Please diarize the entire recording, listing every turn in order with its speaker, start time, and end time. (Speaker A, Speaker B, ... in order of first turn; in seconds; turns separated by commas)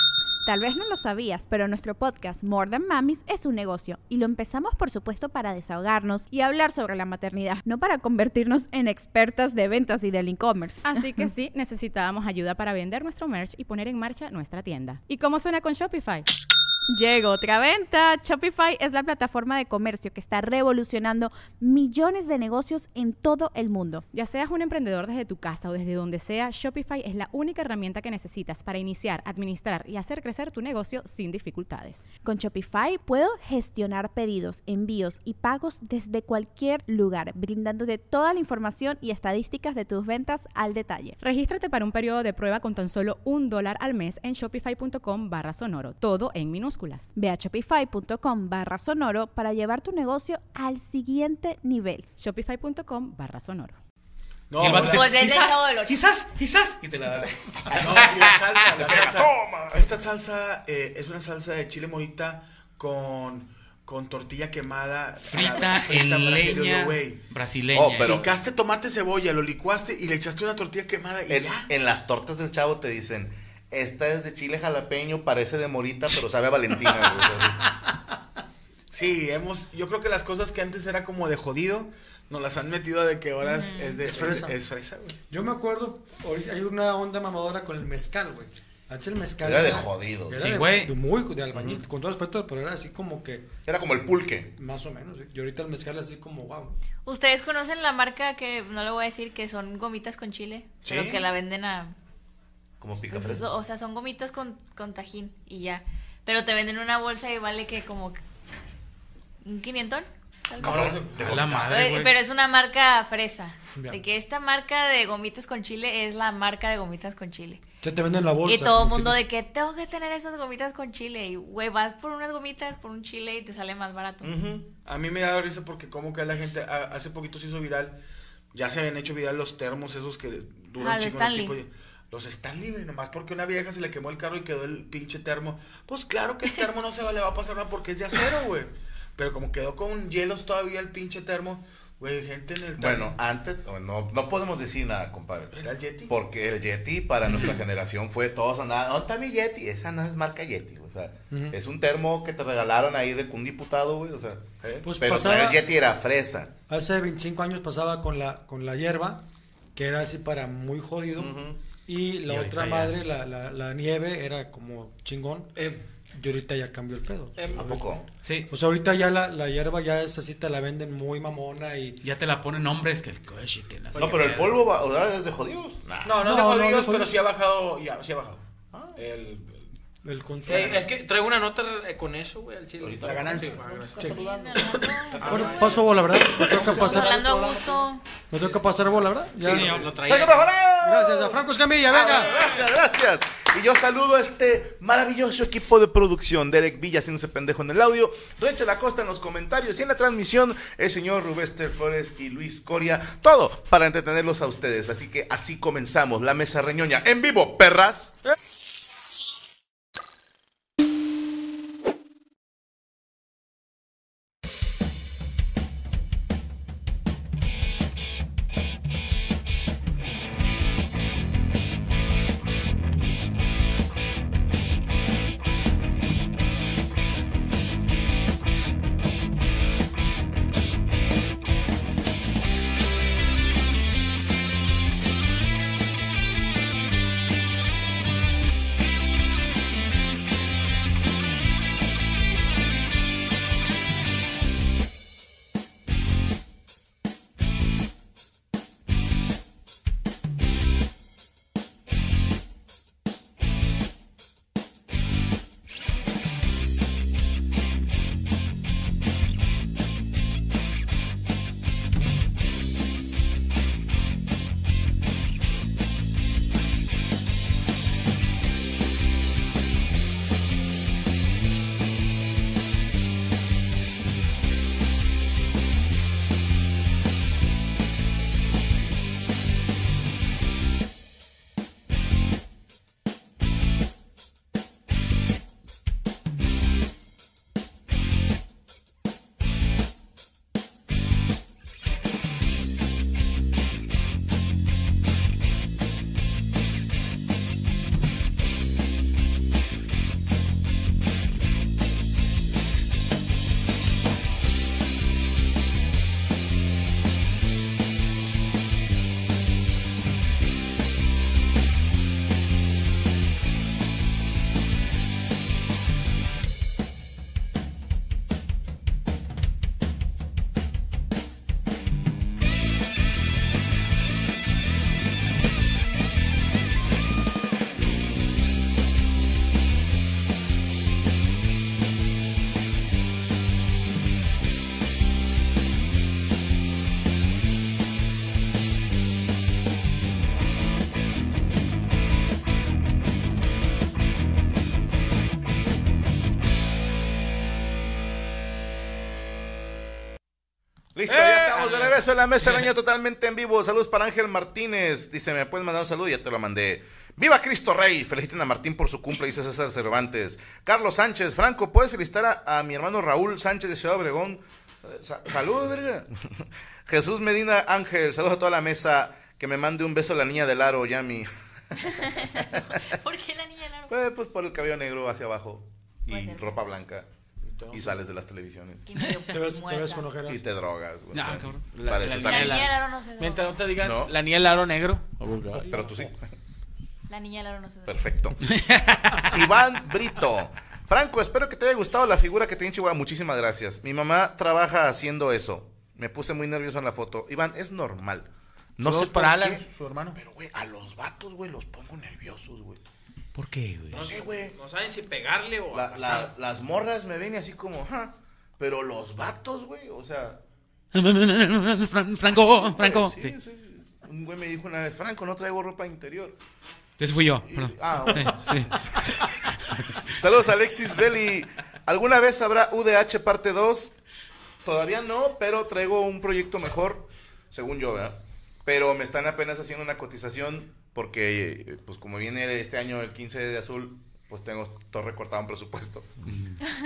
Speaker A: 0.4-11.3, Speaker B: 10.8-16.3, Speaker A: 16.9-24.0, Speaker B: 24.1-32.0, Speaker A: 32.2-41.2, Speaker B: 41.2-47.1, Speaker A: 47.1-52.0, Speaker B: 52.2-53.8, Speaker C: 54.5-55.2, Speaker D: 54.6-58.1, Speaker E: 54.8-56.0, Speaker C: 57.7-67.2, Speaker F: 58.7-59.9, Speaker D: 65.2-68.2, Speaker F: 67.7-68.3, Speaker C: 68.0-71.7, Speaker F: 71.3-77.6, Speaker C: 78.9-85.2, Speaker E: 83.4-84.0, Speaker G: 84.0-84.5, Speaker G: 85.3-93.5, Speaker F: 89.4-90.5, Speaker D: 90.4-90.9, Speaker F: 93.7-94.5, Speaker G: 94.6-96.7, Speaker E: 97.0-101.9, Speaker C: 100.8-101.2, Speaker F: 102.8-103.5, Speaker E: 103.1-108.2, Speaker E: 109.4-110.9, Speaker F: 110.6-112.0, Speaker C: 110.6-111.3, Speaker D: 111.2-112.1, Speaker E: 111.6-117.6, Speaker G: 117.8-119.2, Speaker E: 118.4-124.3, Speaker F: 124.2-124.7, Speaker C: 124.8-128.0, Speaker C: 128.5-143.2, Speaker E: 130.8-131.6, Speaker F: 142.8-154.4, Speaker C: 145.5-146.1, Speaker C: 154.6-154.8, Speaker G: 154.8-155.6, Speaker F: 155.0-156.5, Speaker G: 156.7-159.2, Speaker G: 159.7-165.5, Speaker F: 161.2-161.6, Speaker D: 162.3-162.9, Speaker G: 166.1-167.9, Speaker H: 167.4-167.6, Speaker F: 167.5-168.0, Speaker D: 168.2-168.5, Speaker G: 168.5-172.0, Speaker D: 172.0-174.6, Speaker F: 174.0-176.2, Speaker C: 176.0-178.4, Speaker G: 176.2-177.1, Speaker F: 178.7-179.0, Speaker C: 178.9-179.5, Speaker G: 180.0-180.8, Speaker H: 180.4-183.9, Speaker F: 182.8-184.0, Speaker C: 183.0-184.5, Speaker E: 184.0-185.8, Speaker H: 185.2-185.8, Speaker G: 185.2-187.5, Speaker E: 186.4-188.0, Speaker F: 186.8-187.3, Speaker G: 188.3-189.8, Speaker D: 189.4-190.0, Speaker F: 189.4-208.2, Speaker H: 189.6-190.5, Speaker G: 190.8-192.3, Speaker F: 350.9-372.6, Speaker C: 351.1-351.9, Speaker E: 372.0-372.4, Speaker E: 373.0-373.9, Speaker F: 373.9-377.1, Speaker E: 376.1-376.6, Speaker C: 377.6-377.9, Speaker F: 377.7-378.9, Speaker E: 378.9-380.1, Speaker G: 379.3-380.4, Speaker F: 380.2-382.7, Speaker D: 381.1-381.6, Speaker C: 381.7-385.7, Speaker E: 382.2-383.8, Speaker F: 383.8-384.1, Speaker G: 385.5-386.0, Speaker F: 385.7-386.3, Speaker E: 387.1-388.1, Speaker F: 387.9-388.4, Speaker D: 388.4-389.4, Speaker F: 389.3-402.8, Speaker C: 398.8-400.2, Speaker D: 403.4-404.0, Speaker F: 403.9-404.5, Speaker H: 403.9-406.3, Speaker F: 405.7-410.4, Speaker D: 410.9-413.3, Speaker F: 412.3-416.4, Speaker D: 417.0-419.8, Speaker F: 417.4-418.8, Speaker F: 420.1-423.9, Speaker F: 424.6-436.3